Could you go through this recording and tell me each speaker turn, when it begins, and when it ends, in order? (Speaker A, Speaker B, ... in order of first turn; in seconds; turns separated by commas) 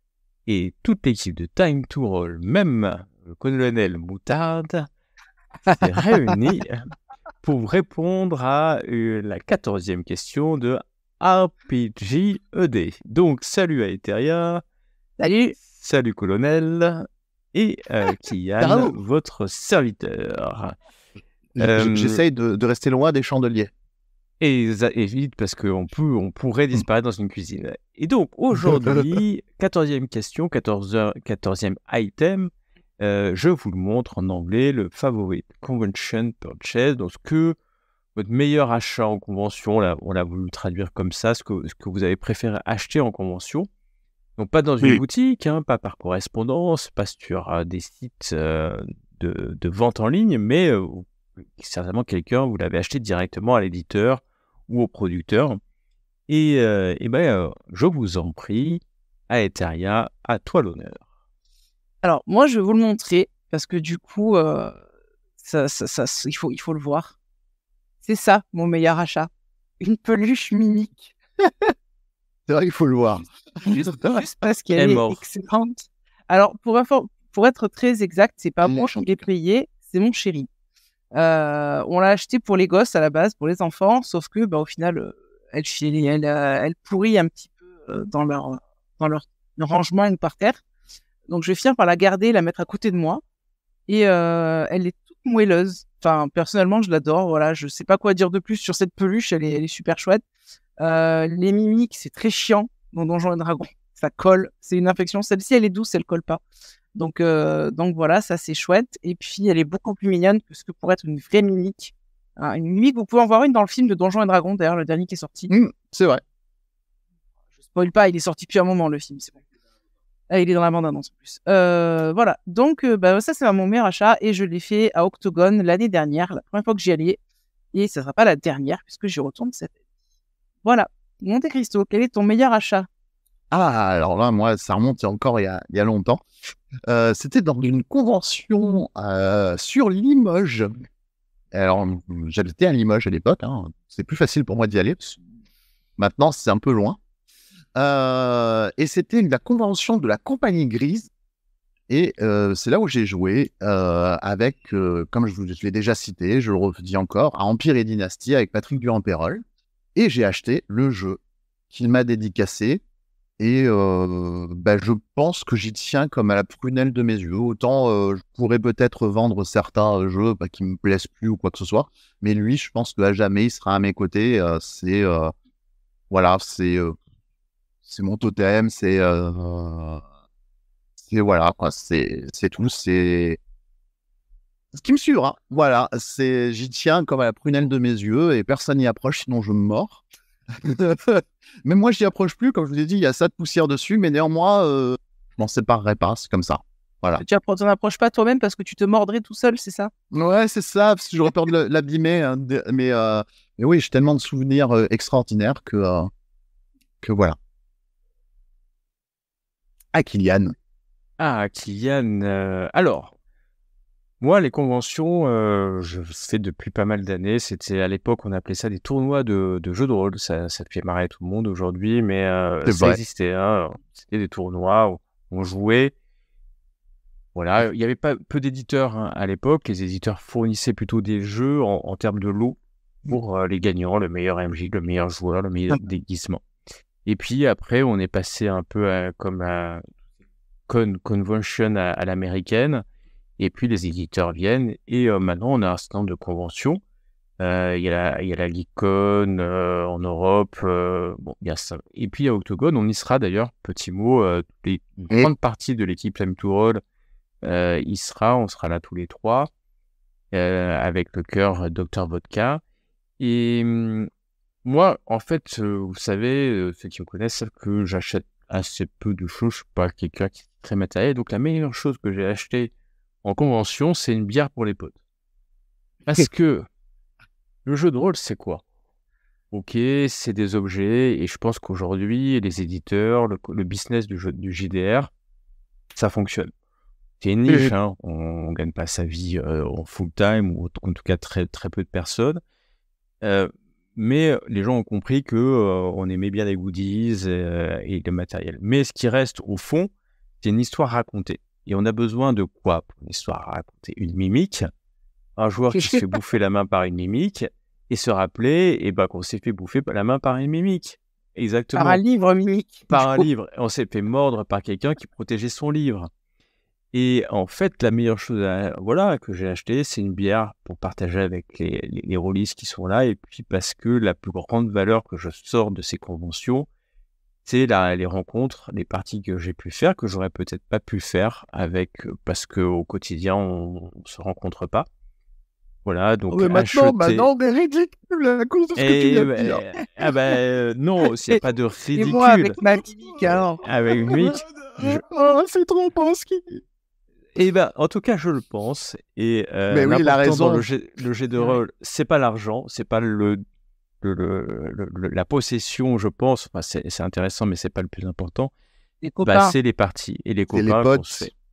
Speaker A: 0.5-4.9, Speaker A: 5.7-6.8, Speaker A: 7.4-14.6, Speaker B: 15.2-15.6, Speaker A: 15.6-20.8, Speaker C: 18.6-19.0, Speaker C: 21.6-23.7, Speaker A: 21.6-22.2, Speaker A: 24.4-37.6, Speaker A: 38.1-43.7, Speaker A: 44.4-55.6, Speaker A: 56.3-61.1, Speaker B: 62.0-64.8, Speaker B: 65.4-67.2, Speaker B: 68.0-71.1, Speaker C: 72.5-74.3, Speaker B: 74.2-80.5, Speaker A: 74.7-75.2, Speaker C: 78.6-79.2, Speaker B: 81.1-90.6, Speaker B: 91.3-93.2, Speaker B: 93.9-100.2, Speaker B: 100.8-106.4, Speaker B: 107.0-115.5, Speaker C: 115.5-116.2, Speaker B: 117.7-119.4, Speaker B: 120.3-127.2, Speaker B: 127.7-129.7, Speaker B: 130.6-132.9, Speaker C: 133.5-136.2, Speaker C: 136.9-140.8, Speaker C: 141.5-145.2, Speaker C: 146.0-147.0, Speaker C: 147.8-151.1, Speaker C: 151.9-159.4, Speaker C: 160.0-162.8, Speaker C: 163.4-175.3, Speaker C: 176.1-176.9, Speaker C: 177.8-180.0, Speaker C: 181.0-183.4, Speaker C: 184.7-190.0, Speaker C: 190.6-197.2, Speaker B: 197.2-199.9, Speaker C: 200.1-206.1, Speaker C: 207.0-207.4, Speaker C: 209.9-210.5, Speaker A: 211.2-213.1, Speaker A: 214.2-225.9, Speaker C: 222.7-223.0, Speaker A: 227.3-236.4, Speaker A: 237.1-239.8, Speaker A: 240.7-242.8, Speaker A: 243.4-246.8, Speaker A: 247.4-256.8, Speaker A: 257.4-259.5, Speaker A: 260.3-262.6, Speaker A: 263.2-264.1, Speaker A: 264.6-272.7, Speaker A: 273.2-275.0, Speaker A: 276.1-276.7, Speaker A: 277.6-278.6, Speaker A: 279.5-285.1, Speaker A: 285.9-286.5, Speaker A: 287.2-292.4, Speaker A: 293.2-304.6, Speaker A: 305.4-312.0, Speaker B: 305.7-306.1, Speaker B: 311.8-313.3, Speaker A: 312.9-316.1, Speaker A: 316.9-326.7, Speaker A: 327.4-334.9, Speaker A: 335.9-337.3, Speaker C: 336.3-339.6, Speaker A: 338.8-342.6, Speaker B: 341.9-343.6, Speaker A: 343.6-345.0, Speaker C: 344.0-346.6, Speaker A: 347.4-353.4, Speaker C: 349.7-350.7, Speaker A: 354.0-358.5, Speaker B: 359.0-359.6, Speaker A: 359.2-361.3, Speaker C: 360.5-361.3